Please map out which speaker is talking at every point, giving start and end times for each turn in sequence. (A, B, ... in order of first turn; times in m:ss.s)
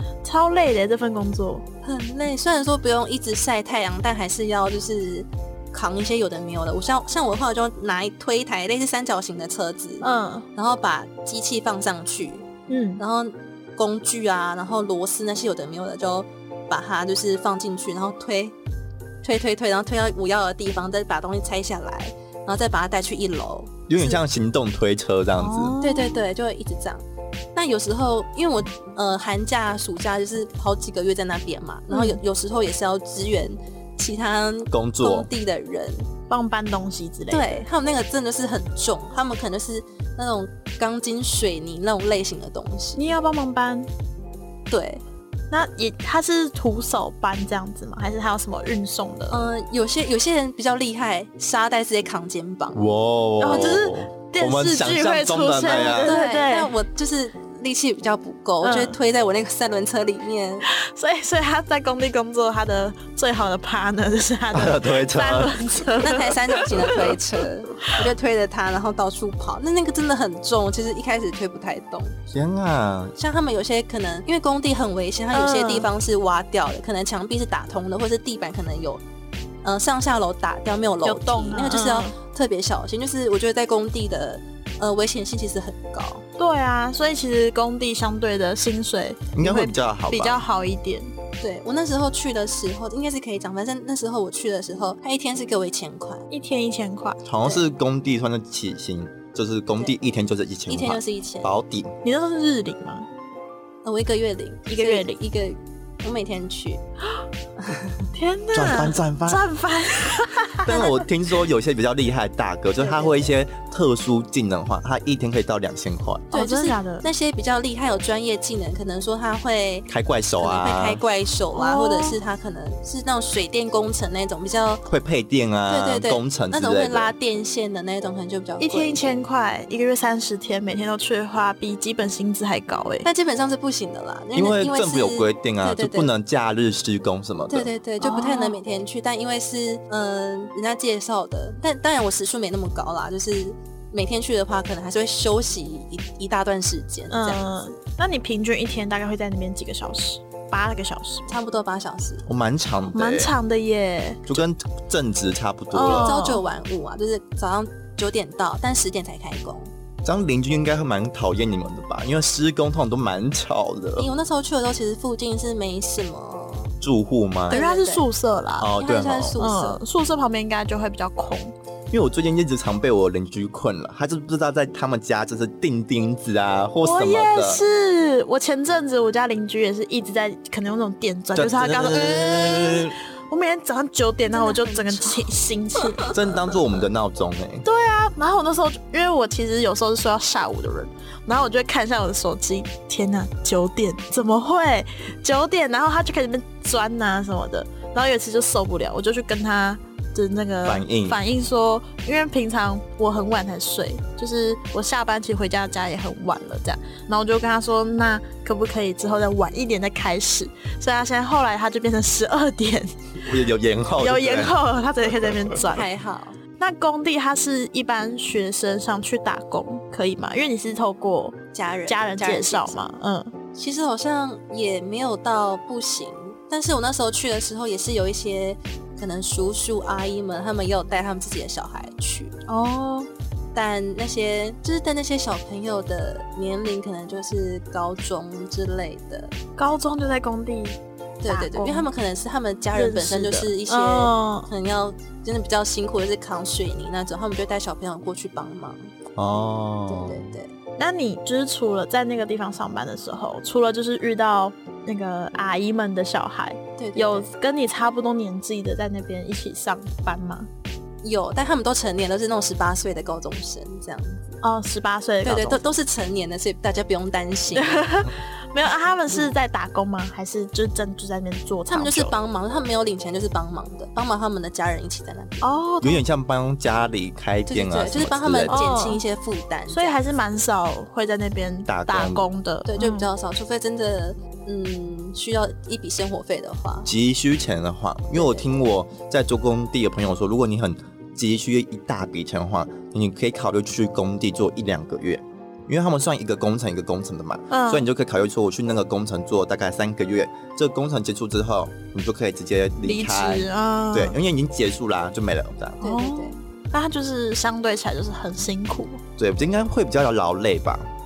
0:00.2-0:01.6 A
0:01.8-0:12.5 B
0:10.0-0:10.4 A
0:12.7-0:13.0 A
0:13.0-0:18.6 B
0:19.2-0:24.2 B
0:23.9-0:25.8 C
0:25.4-0:26.3 A
0:25.8-0:27.0 B
0:27.6-0:36.1 B
0:31.9-0:32.2 A
0:34.7-0:35.3 C
0:36.3-0:37.6 A
0:37.3-0:43.1 B
0:43.0-0:43.9 A
0:44.7-0:45.0 B
0:45.5-0:49.5 A
0:49.3-0:52.8 B
0:52.7-0:56.2 C
0:53.4-0:56.7 A
0:53.4-0:53.8 B
0:55.7-1:00.7 B
0:58.6-0:59.0 A
1:00.7-1:07.2 A
1:04.5-1:05.6 C
1:06.0-1:12.2 B
1:12.3-1:13.2 C
1:13.2-1:19.0 B
1:15.3-1:15.9 A
1:19.6-1:26.2 B
1:21.0-1:22.2 A
1:26.4-1:31.1 A
1:29.4-1:30.4 C
1:31.4-1:36.3 B
1:36.3-1:37.2 A
1:37.2-1:41.9 C
1:40.7-1:41.5 B
1:42.0-1:43.1 A
1:43.8-1:46.8 B
1:44.7-1:45.2 A
1:47.6-1:47.9 B
1:48.1-1:50.9 A
1:48.5-1:49.4 C
1:50.7-1:56.3 C
1:52.8-1:53.4 B
1:56.3-1:57.1 A
1:56.3-2:04.8 B
1:59.9-2:01.0 C
2:01.5-2:02.2 A
2:04.9-2:07.1 C
2:05.7-2:09.2 B
2:08.6-2:13.1 A
2:13.0-2:16.1 B
2:14.4-2:17.7 C
2:17.5-2:27.4 B
2:18.0-2:18.6 A
2:27.1-2:31.4 A
2:31.3-2:32.2 B
2:32.3-2:33.4 C
2:32.9-2:34.4 A
2:34.3-2:36.2 C
2:35.7-2:36.4 A
2:35.8-2:39.7 B
2:40.0-2:44.1 C
2:44.0-2:46.8 B
2:46.8-2:47.6 C
2:47.5-2:48.1 B
2:47.5-2:48.7 A
2:48.6-2:49.4 C
2:48.8-2:49.8 B
2:49.4-2:51.5 A
2:51.9-2:57.6 C
2:56.8-3:06.7 A
3:01.4-3:03.0 C
3:04.3-3:05.3 B
3:06.1-3:07.7 C
3:07.6-3:33.2 A
3:20.7-3:21.2 C
3:33.2-3:34.6 C
3:34.0-3:35.9 A
3:35.6-3:36.4 B
3:36.6-3:43.3 A
3:41.5-3:42.8 B
3:43.6-3:52.3 B
3:52.5-3:53.1 A
3:53.5-3:59.3 B
3:59.6-4:01.9 A
4:01.2-4:08.9 B
4:02.7-4:04.5 A
4:09.2-4:10.3 C
4:09.9-4:10.5 B
4:10.8-4:20.5 A
4:16.8-4:17.3 B
4:21.0-4:24.4 B
4:24.4-4:25.6 A
4:25.2-4:27.8 B
4:27.5-4:32.1 A
4:31.7-4:35.5 B
4:35.4-4:36.0 A
4:35.8-4:38.6 C
4:37.5-4:40.0 B
4:38.5-4:39.0 A
4:39.7-4:43.1 A
4:41.7-4:42.3 C
4:42.6-4:46.9 B
4:46.9-5:05.8 C
4:48.1-4:48.5 B
4:57.5-4:57.9 A
5:02.8-5:04.2 A
5:05.8-5:06.4 B
5:05.8-5:09.0 A
5:09.2-5:10.9 C